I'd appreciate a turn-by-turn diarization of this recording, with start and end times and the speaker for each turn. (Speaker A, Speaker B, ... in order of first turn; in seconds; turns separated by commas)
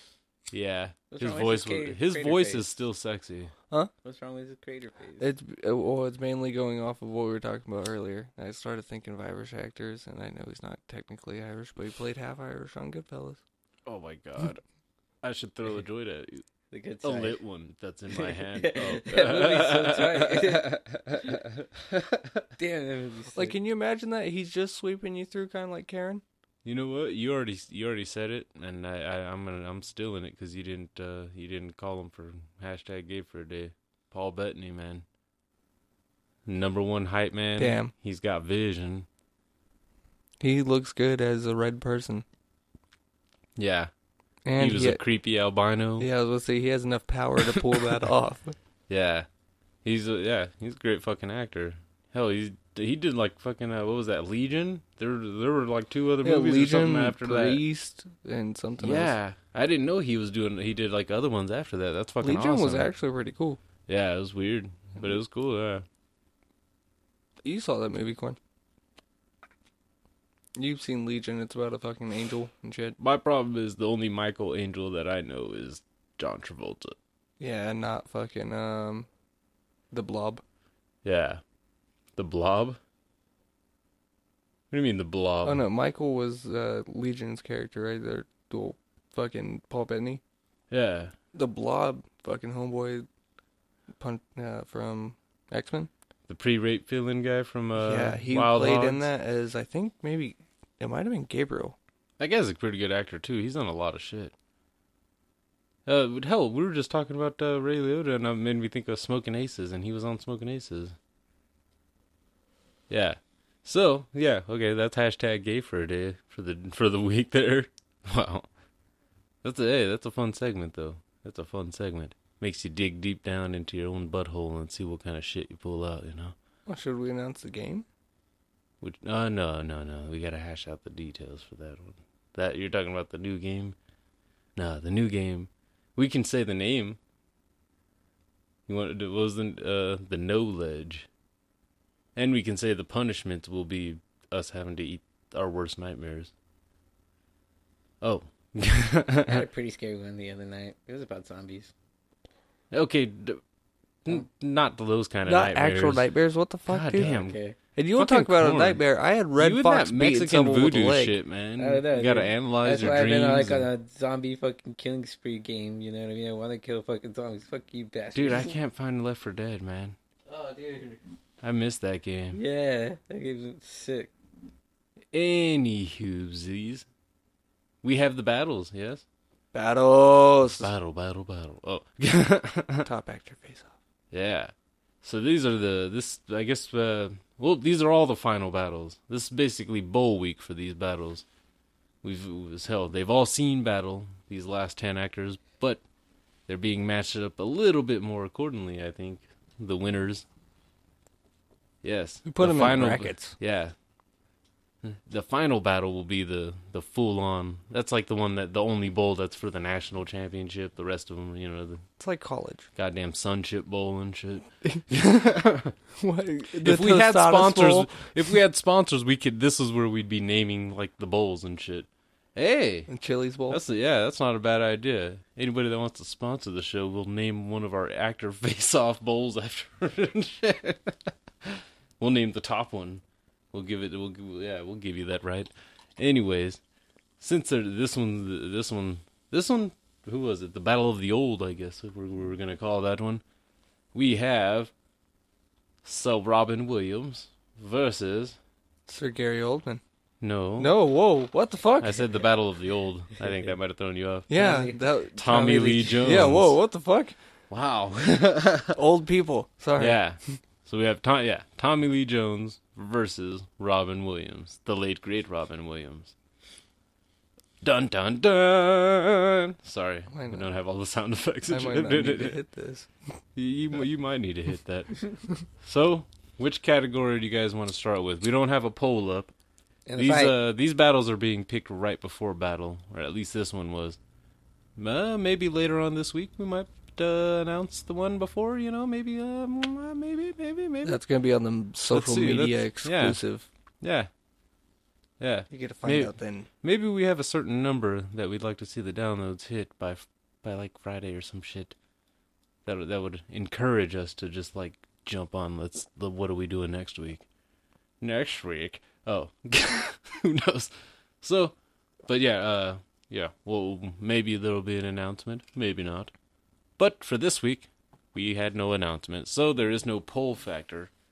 Speaker A: 0.5-3.5, Speaker B: 1.1-2.7, Speaker B: 4.0-5.3, Speaker C: 5.2-13.4, Speaker A: 13.8-14.6, Speaker A: 15.2-16.4, Speaker B: 16.7-17.4, Speaker A: 17.0-22.4, Speaker B: 18.1-21.4, Speaker B: 22.6-23.6, Speaker C: 23.3-26.2, Speaker A: 26.6-35.0, Speaker A: 36.5-39.1, Speaker C: 37.6-37.9, Speaker C: 40.4-42.2, Speaker A: 43.5-43.9, Speaker C: 44.4-45.0, Speaker A: 44.5-46.1, Speaker C: 46.0-48.5, Speaker A: 48.9-49.3, Speaker A: 49.8-57.6, Speaker C: 56.2-59.1, Speaker A: 58.8-62.9, Speaker C: 62.2-63.6, Speaker A: 63.9-65.8, Speaker C: 67.4-68.4, Speaker C: 70.5-73.0, Speaker A: 73.0-77.0, Speaker C: 77.4-79.1, Speaker C: 79.9-80.4, Speaker A: 81.0-81.4, Speaker A: 82.2-82.8, Speaker A: 84.7-85.6, Speaker C: 85.4-90.2, Speaker A: 90.7-91.1, Speaker C: 91.3-93.1, Speaker C: 94.0-95.9, Speaker A: 96.3-99.1, Speaker C: 97.8-101.8, Speaker A: 102.2-104.3, Speaker A: 105.8-111.0, Speaker A: 112.9-118.5, Speaker A: 119.4-126.3, Speaker C: 126.7-127.8, Speaker A: 128.8-133.8, Speaker A: 134.6-137.0, Speaker A: 138.7-141.1, Speaker A: 142.2-146.3, Speaker A: 148.0-149.4, Speaker B: 149.2-151.7, Speaker A: 152.7-153.4, Speaker A: 154.0-156.1, Speaker C: 155.3-157.1, Speaker A: 156.7-157.4, Speaker B: 157.0-157.6, Speaker C: 157.8-161.1, Speaker A: 158.0-158.8, Speaker A: 159.4-163.7, Speaker B: 161.6-168.5, Speaker A: 168.1-169.9, Speaker B: 170.3-171.0, Speaker A: 171.4-172.4, Speaker B: 172.3-174.1, Speaker A: 175.1-176.8, Speaker A: 177.8-179.0, Speaker C: 179.5-180.7, Speaker A: 180.6-182.9, Speaker C: 182.8-183.7, Speaker A: 184.1-191.2, Speaker A: 192.0-195.8, Speaker A: 196.5-200.2, Speaker A: 201.8-203.7, Speaker C: 202.2-203.3, Speaker A: 204.8-211.8, Speaker C: 212.0-212.7, Speaker A: 212.8-215.7, Speaker C: 216.0-217.9, Speaker A: 216.6-222.9, Speaker C: 222.9-223.6, Speaker A: 223.5-233.0, Speaker A: 233.5-236.6, Speaker A: 237.2-243.2, Speaker A: 243.9-244.7, Speaker A: 245.8-248.4, Speaker C: 248.9-249.8, Speaker A: 250.2-250.8, Speaker C: 250.6-252.1, Speaker A: 251.8-254.3, Speaker B: 253.2-253.5, Speaker C: 254.3-257.1, Speaker B: 254.3-256.2, Speaker A: 255.2-256.5, Speaker A: 257.5-258.8, Speaker C: 258.7-260.0, Speaker A: 259.8-266.1, Speaker A: 267.6-272.4, Speaker C: 270.1-270.4, Speaker C: 271.5-272.9, Speaker A: 273.4-279.3, Speaker B: 279.9-280.4, Speaker A: 279.9-284.0, Speaker A: 284.8-291.0, Speaker C: 290.8-293.5, Speaker A: 291.9-293.2, Speaker A: 293.8-294.1, Speaker A: 295.2-301.7, Speaker C: 295.5-296.5, Speaker A: 302.6-307.2, Speaker A: 308.0-311.5, Speaker A: 312.1-316.1, Speaker A: 316.8-320.9